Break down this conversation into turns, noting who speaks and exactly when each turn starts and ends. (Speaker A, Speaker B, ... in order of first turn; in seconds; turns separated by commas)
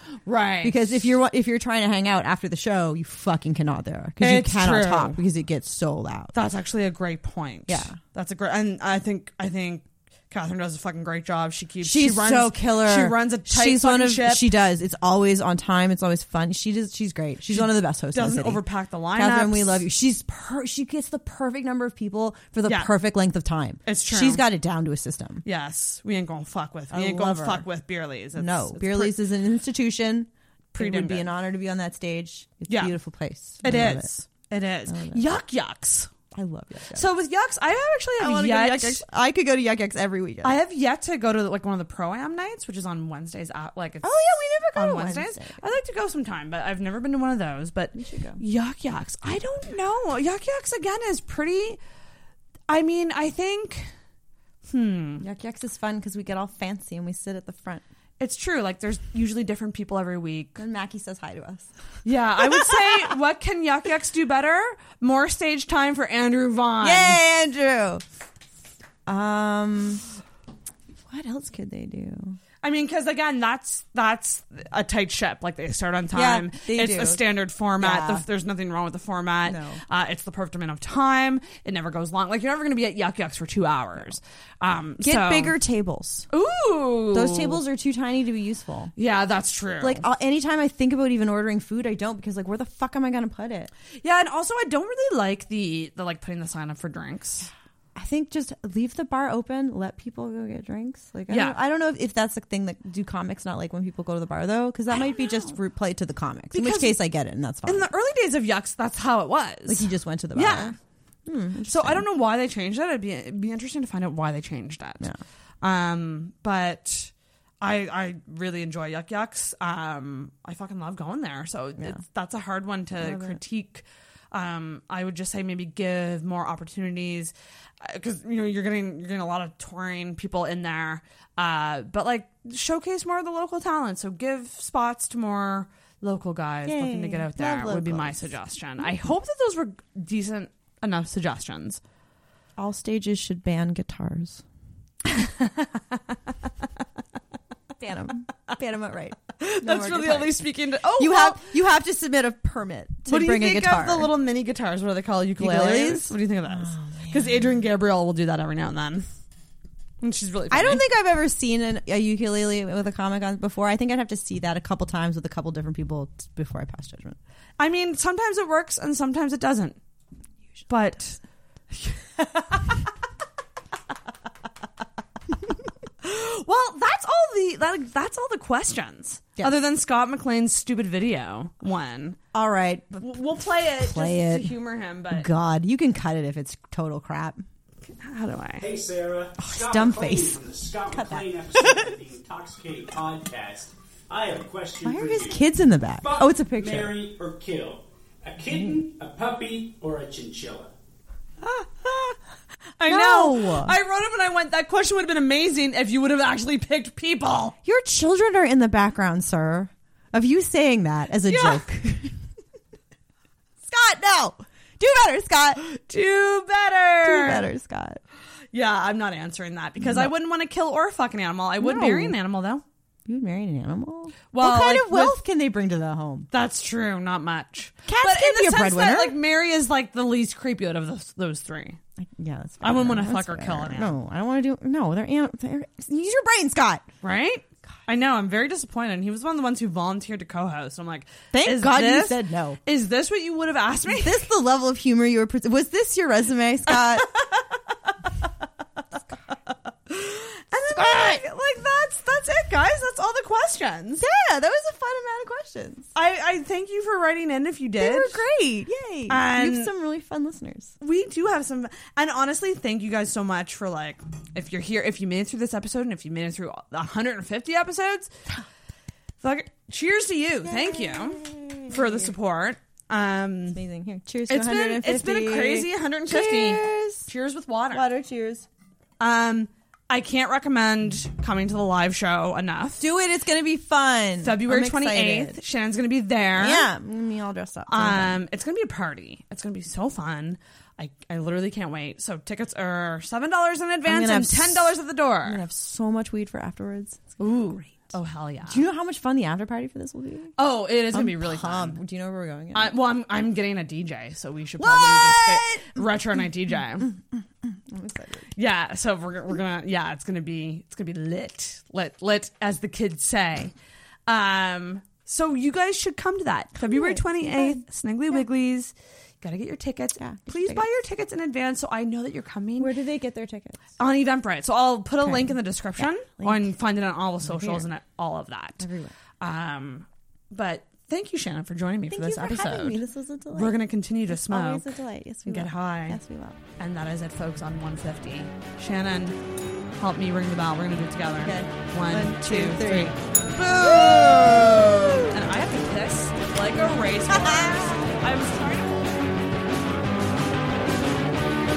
Speaker A: 0.3-1.0, Speaker B: 0.6-6.3, Speaker A: 4.2-5.2, Speaker A: 6.3-14.5, Speaker B: 7.7-8.0, Speaker B: 11.8-18.6, Speaker A: 17.5-19.9, Speaker B: 19.2-25.4, Speaker A: 22.7-22.9, Speaker A: 23.9-24.4, Speaker A: 25.4-29.1, Speaker B: 26.9-27.6, Speaker B: 28.4-34.1, Speaker A: 30.7-31.3, Speaker A: 32.7-33.0, Speaker A: 33.6-36.1, Speaker B: 34.9-35.2, Speaker B: 36.3-37.1, Speaker A: 36.9-39.0, Speaker B: 38.2-40.6, Speaker A: 40.4-44.1, Speaker B: 44.0-45.7, Speaker A: 44.7-51.8, Speaker B: 47.9-48.4, Speaker A: 52.7-53.9, Speaker A: 54.7-55.2, Speaker B: 55.2-57.8, Speaker A: 58.2-60.6, Speaker B: 60.6-61.7, Speaker A: 62.0-67.2, Speaker B: 62.4-63.1, Speaker B: 66.8-68.0, Speaker B: 69.1-70.0, Speaker B: 71.0-72.4, Speaker A: 72.6-85.5, Speaker B: 76.1-77.2, Speaker B: 77.8-78.2, Speaker B: 79.5-79.8, Speaker B: 85.0-86.3, Speaker A: 86.3-87.6, Speaker B: 87.1-88.9, Speaker A: 89.0-90.1, Speaker B: 89.8-93.7, Speaker A: 94.0-97.5, Speaker B: 98.0-107.9, Speaker A: 101.3-101.6, Speaker A: 105.0-105.5, Speaker A: 106.5-107.0, Speaker A: 107.7-110.8, Speaker B: 109.7-112.0, Speaker A: 111.7-115.1, Speaker A: 115.6-141.8, Speaker B: 123.0-123.4, Speaker B: 136.7-138.9, Speaker B: 142.6-144.4, Speaker A: 145.1-145.8, Speaker B: 147.8-150.4, Speaker A: 149.4-151.5, Speaker B: 150.9-154.2, Speaker A: 153.1-159.1, Speaker B: 155.4-157.6, Speaker A: 160.0-160.9, Speaker B: 160.5-167.2, Speaker A: 167.6-169.8, Speaker A: 170.7-171.2, Speaker A: 171.7-172.7, Speaker A: 176.0-182.2, Speaker B: 182.3-184.5, Speaker A: 183.0-185.3, Speaker B: 185.1-187.4, Speaker A: 188.0-188.6, Speaker C: 188.6-195.4, Speaker B: 189.4-190.4, Speaker B: 190.9-191.9, Speaker B: 194.8-197.0, Speaker C: 196.0-200.7, Speaker B: 198.5-198.8, Speaker A: 201.4-202.2, Speaker A: 202.8-207.6, Speaker B: 202.9-203.8, Speaker B: 207.7-212.2, Speaker A: 211.3-211.6, Speaker B: 213.7-215.6, Speaker A: 215.6-217.5, Speaker B: 217.0-218.0, Speaker A: 218.5-222.6, Speaker B: 219.8-220.1, Speaker B: 221.6-222.2, Speaker B: 223.1-226.3, Speaker A: 224.3-225.2, Speaker A: 226.3-231.8, Speaker B: 227.9-229.2, Speaker B: 232.0-236.9, Speaker A: 232.6-233.9, Speaker A: 237.0-244.3, Speaker B: 241.3-242.6, Speaker B: 243.9-247.1, Speaker A: 247.0-247.5, Speaker A: 249.9-254.1, Speaker B: 250.6-251.2, Speaker B: 254.0-255.9, Speaker A: 255.9-258.2, Speaker B: 257.8-260.8, Speaker A: 259.1-259.7, Speaker A: 260.8-268.1, Speaker A: 269.2-273.6, Speaker B: 270.4-272.1, Speaker B: 273.5-277.1, Speaker A: 274.3-277.9, Speaker B: 277.7-278.5, Speaker A: 279.0-282.9, Speaker B: 282.8-285.4, Speaker A: 284.2-286.7, Speaker B: 286.4-288.2, Speaker A: 287.7-295.4, Speaker B: 293.9-297.7, Speaker A: 297.2-298.6, Speaker B: 298.5-300.4, Speaker A: 300.4-301.8, Speaker B: 300.9-302.8, Speaker A: 302.5-306.9, Speaker B: 304.6-305.9, Speaker B: 306.5-308.3, Speaker A: 308.4-313.5, Speaker A: 314.1-322.7, Speaker B: 316.6-317.6, Speaker B: 320.0-320.7, Speaker B: 322.6-323.7, Speaker A: 323.8-328.7, Speaker B: 325.0-326.5, Speaker B: 327.2-327.7, Speaker B: 328.6-328.9, Speaker A: 329.2-332.8, Speaker B: 331.9-336.4, Speaker A: 333.3-336.0, Speaker A: 336.6-339.2, Speaker A: 339.8-349.1, Speaker B: 341.2-345.1, Speaker B: 347.1-348.0